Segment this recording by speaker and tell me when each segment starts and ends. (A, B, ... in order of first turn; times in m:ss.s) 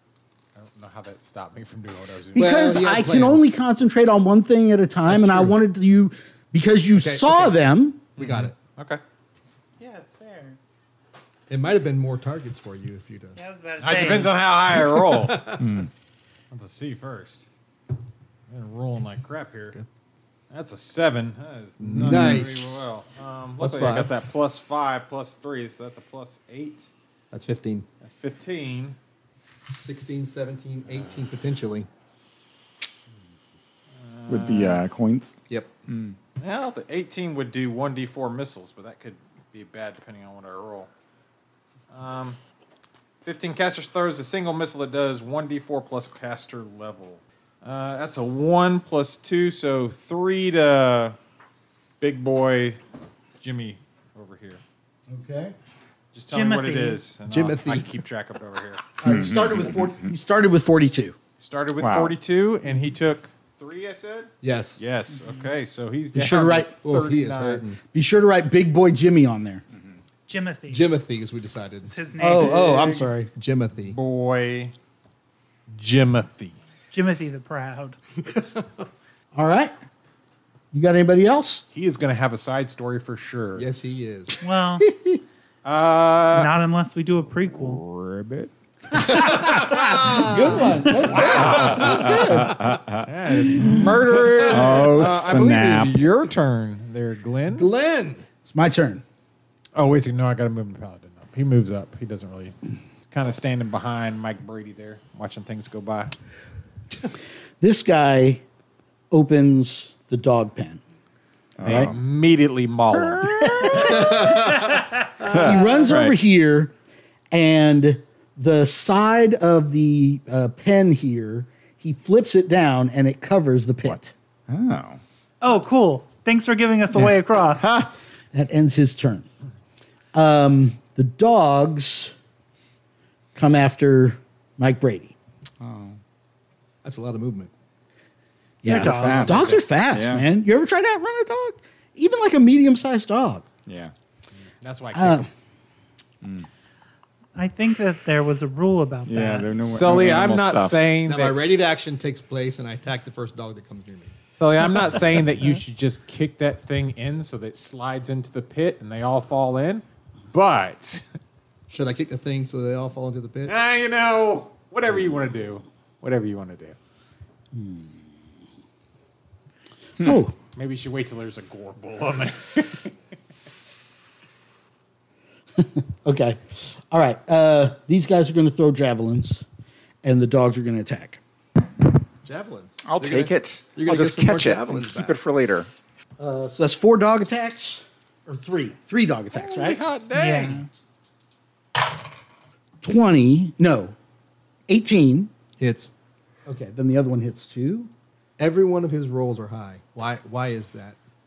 0:00.6-0:02.5 A
0:02.3-0:08.1 B
0:02.4-0:03.5 C
0:05.1-0:05.6 C
0:07.0-0:07.6 C
0:08.2-0:08.6 C
0:08.2-0:09.0 A
0:09.8-0:10.6 D
0:11.5-0:13.4 C
0:13.4-0:14.4 D
0:13.8-0:15.6 A
0:14.7-0:15.7 C
0:15.6-0:15.9 E
0:16.5-0:17.4 A
0:18.5-0:19.8 A
0:20.5-0:26.9 A
0:21.8-0:22.8 C
0:23.6-0:24.1 C
0:27.3-0:27.9 C
0:28.0-0:29.0 A
0:29.7-0:31.9 C
0:34.0-0:34.8 A
0:34.3-0:35.4 E
0:35.9-0:36.2 E
0:36.4-0:40.9 A
0:41.9-0:42.4 A
0:43.2-0:51.2 A
0:52.0-0:52.8 A
0:53.4-0:54.6 A
0:55.1-0:55.6 B
0:56.1-0:58.9 A
0:56.3-0:57.0 D
0:57.3-0:57.9 C
0:59.0-1:01.2 B
0:59.0-1:00.1 E
1:01.4-1:07.6 A
1:01.8-1:02.2 E
1:04.4-1:04.8 C
1:06.2-1:06.7 B
1:06.2-1:07.8 C
1:07.9-1:09.6 B
1:10.3-1:10.9 D
1:10.7-1:11.9 C
1:11.9-1:12.9 D
1:12.2-1:13.3 B
1:12.4-1:13.0 A
1:13.4-1:14.0 C
1:13.8-1:14.7 A
1:15.7-1:16.6 A
1:16.9-1:18.0 D
1:19.3-1:19.7 B
1:20.7-1:21.6 B
1:21.7-1:23.7 A
1:23.6-1:24.4 C
1:24.4-1:24.9 D
1:24.8-1:25.2 B
1:25.6-1:26.5 A
1:26.3-1:27.8 D
1:27.6-1:29.1 E
1:28.9-1:32.6 B
1:29.0-1:32.6 C
1:30.3-1:32.2 A
1:31.4-1:36.0 E
1:33.0-1:37.7 A
1:34.4-1:35.1 C
1:37.5-1:38.2 C
1:38.4-1:39.0 B
1:39.8-1:42.5 A
1:43.1-1:46.2 A
1:47.6-1:48.4 B
1:49.1-1:50.8 B
1:51.6-1:52.0 E
1:51.6-1:51.9 B
1:51.7-1:53.8 A
1:53.1-1:54.0 E
1:53.4-1:54.5 B
1:53.7-1:55.5 C
1:55.2-1:56.2 E
1:55.3-1:56.7 B
1:57.3-2:04.1 B
2:03.9-2:05.0 E
2:05.4-2:07.6 D
2:07.0-2:07.9 E
2:08.3-2:09.3 B
2:10.1-2:12.1 B
2:13.4-2:15.1 B
2:15.6-2:16.0 E
2:16.8-2:17.5 C
2:18.6-2:23.5 B
2:18.6-2:19.5 D
2:18.7-2:20.2 E
2:23.7-2:23.9 E
2:24.6-2:25.3 A
2:24.9-2:25.3 B
2:26.2-2:26.5 E
2:27.4-2:29.6 D
2:29.1-2:30.8 E
2:29.6-2:31.4 A
2:31.1-2:34.1 C
2:34.4-2:41.0 A
2:41.7-2:43.5 C
2:43.5-2:46.8 A
2:47.5-2:48.0 B
2:50.0-2:50.3 B
2:50.6-2:52.9 A
2:55.6-2:59.4 B
3:00.0-3:01.2 B
3:02.2-3:05.2 C
3:02.8-3:05.7 E
3:06.2-3:09.8 B
3:09.3-3:10.6 A
3:10.1-3:10.7 D
3:12.8-3:14.0 B
3:14.7-3:15.3 B
3:15.6-3:15.9 C
3:16.5-3:17.9 B
3:18.4-3:21.0 C